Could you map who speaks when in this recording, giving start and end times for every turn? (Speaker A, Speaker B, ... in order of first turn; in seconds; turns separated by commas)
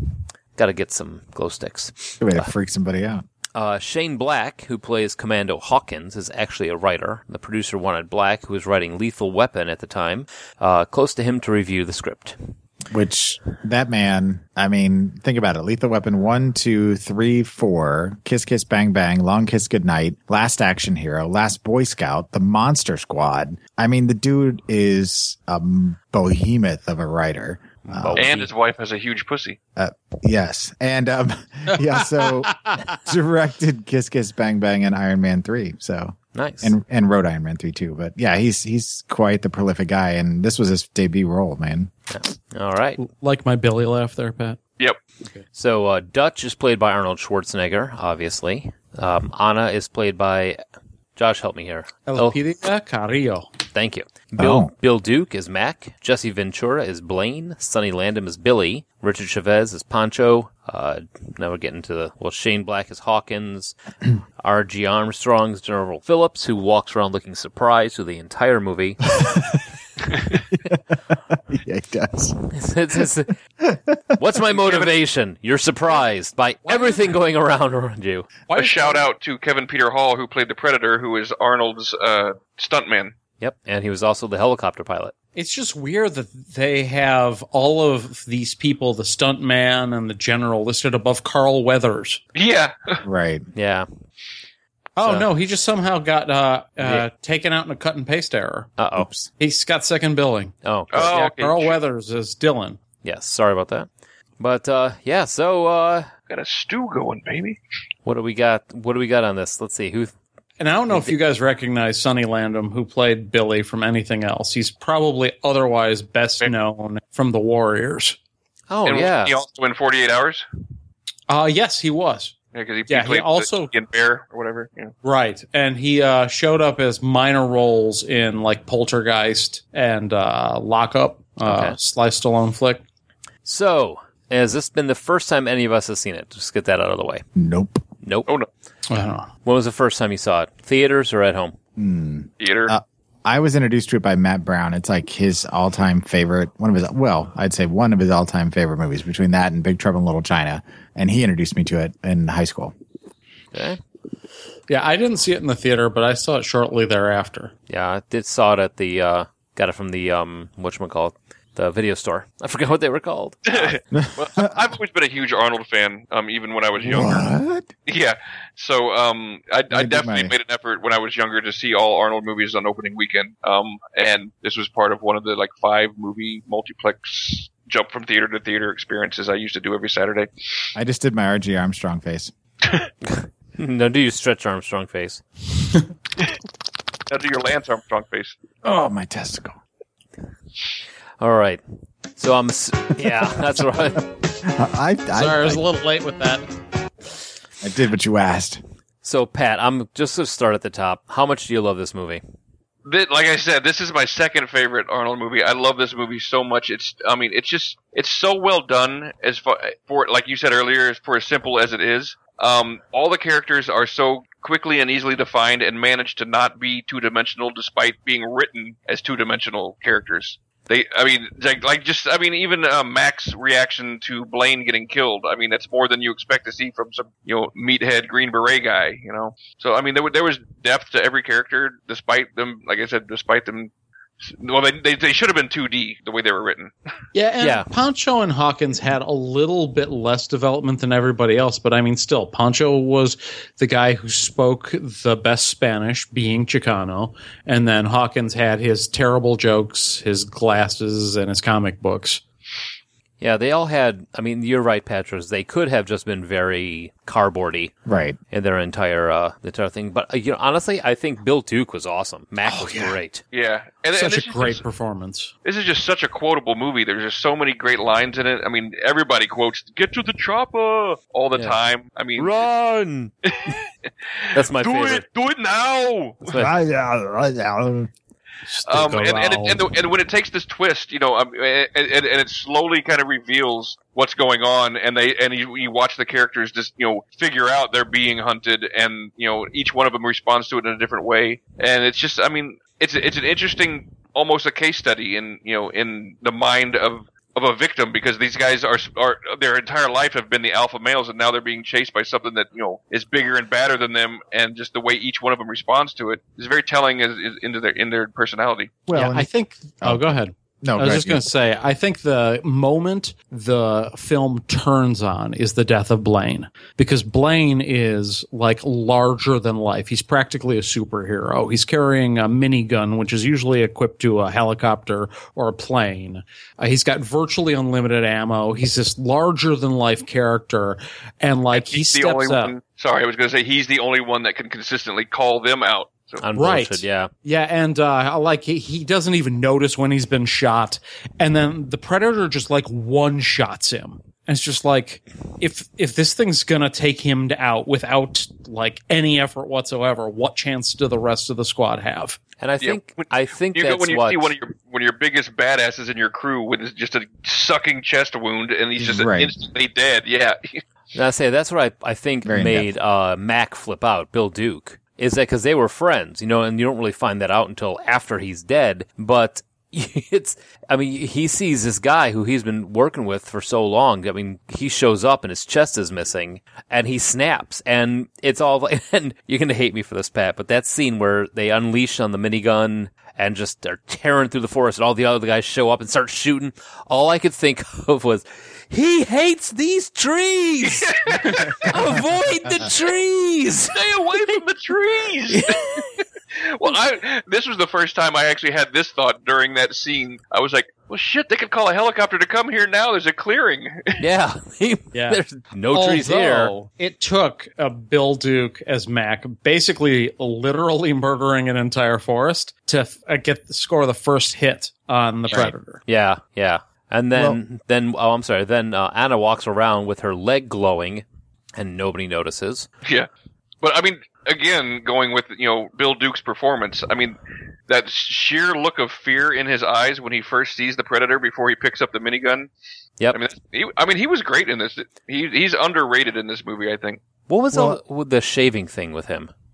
Speaker A: 0.6-2.5, Speaker B: 2.2-3.2, Speaker A: 3.5-12.4, Speaker B: 12.9-28.3, Speaker A: 27.9-28.5, Speaker C: 28.2-29.6, Speaker B: 29.8-41.9, Speaker D: 31.9-32.9, Speaker A: 36.4-36.8, Speaker A: 42.1-43.0, Speaker D: 43.0-44.6, Speaker A: 45.5-50.6, Speaker A: 51.2-52.4, Speaker D: 52.1-53.5, Speaker A: 53.7-63.8, Speaker B: 54.4-54.7, Speaker A: 64.4-69.0, Speaker B: 69.2-69.6, Speaker B: 70.3-72.4, Speaker A: 72.5-73.3, Speaker B: 73.6-74.1, Speaker A: 74.2-78.3, Speaker C: 74.6-74.9, Speaker D: 78.5-79.1, Speaker C: 78.5-83.2, Speaker A: 83.4-85.1, Speaker D: 85.3-92.2, Speaker C: 92.3-93.0, Speaker B: 93.0-93.5, Speaker A: 93.5-93.9, Speaker D: 95.0-98.7, Speaker A: 95.0-95.3, Speaker A: 96.8-97.1, Speaker A: 98.8-99.1, Speaker B: 99.0-99.3, Speaker D: 99.3-100.5, Speaker A: 100.7-101.2, Speaker C: 100.9-101.8, Speaker D: 101.1-102.8, Speaker A: 103.0-106.1, Speaker C: 106.3-107.6, Speaker A: 108.0-110.1, Speaker D: 110.6-118.2, Speaker A: 110.9-111.2, Speaker A: 118.7-119.4, Speaker C: 118.9-120.5, Speaker D: 121.3-122.3, Speaker C: 122.5-124.9, Speaker D: 122.9-123.7, Speaker D: 125.0-132.8, Speaker A: 131.5-131.8, Speaker A: 133.4-137.2, Speaker B: 137.4-137.8, Speaker A: 138.0-138.3, Speaker D: 138.9-139.3, Speaker A: 139.4-141.6, Speaker B: 141.8-152.7, Speaker C: 142.4-142.7, Speaker A: 153.5-153.8, Speaker D: 154.7-157.5, Speaker A: 157.7-163.7, Speaker C: 163.5-167.3, Speaker B: 163.9-164.5, Speaker B: 166.8-167.7, Speaker C: 167.9-180.3, Speaker B: 169.7-170.3, Speaker B: 180.8-182.3, Speaker A: 183.1-185.2, Speaker C: 187.1-188.3, Speaker B: 188.6-189.6, Speaker A: 191.2-191.6, Speaker A: 192.2-194.1, Speaker B: 194.4-195.6, Speaker D: 195.2-196.5, Speaker B: 197.6-198.6, Speaker A: 199.0-202.2, Speaker C: 202.8-233.7, Speaker C: 234.2-236.7, Speaker D: 237.2-252.2, Speaker A: 237.4-237.7, Speaker A: 253.2-257.7, Speaker B: 257.9-258.2, Speaker A: 258.3-263.2, Speaker B: 262.4-262.9, Speaker C: 263.3-264.6, Speaker D: 264.0-265.3, Speaker C: 265.4-272.4, Speaker A: 272.2-273.1, Speaker C: 273.2-273.6, Speaker C: 274.3-276.4, Speaker A: 274.3-275.1, Speaker A: 276.3-276.5, Speaker B: 276.3-277.9, Speaker D: 278.5-279.6, Speaker C: 278.7-308.7, Speaker B: 308.9-309.3, Speaker D: 308.9-332.6, Speaker B: 309.8-311.3, Speaker C: 331.5-336.2, Speaker A: 336.2-337.1, Speaker D: 336.4-352.2, Speaker A: 352.4-354.3, Speaker C: 352.6-360.6, Speaker B: 358.8-359.3, Speaker A: 360.9-390.9, Speaker B: 362.2-362.7, Speaker C: 390.6-391.7, Speaker A: 391.6-393.8, Speaker C: 393.7-395.8, Speaker A: 395.3-395.8, Speaker C: 396.4-404.0, Speaker A: 404.0-406.5, Speaker D: 404.9-415.8, Speaker A: 415.9-421.1, Speaker B: 417.1-417.4, Speaker A: 421.6-422.7, Speaker C: 423.6-427.2, Speaker C: 427.7-432.5, Speaker C: 433.1-437.0, Speaker A: 437.3-439.3, Speaker B: 437.5-437.8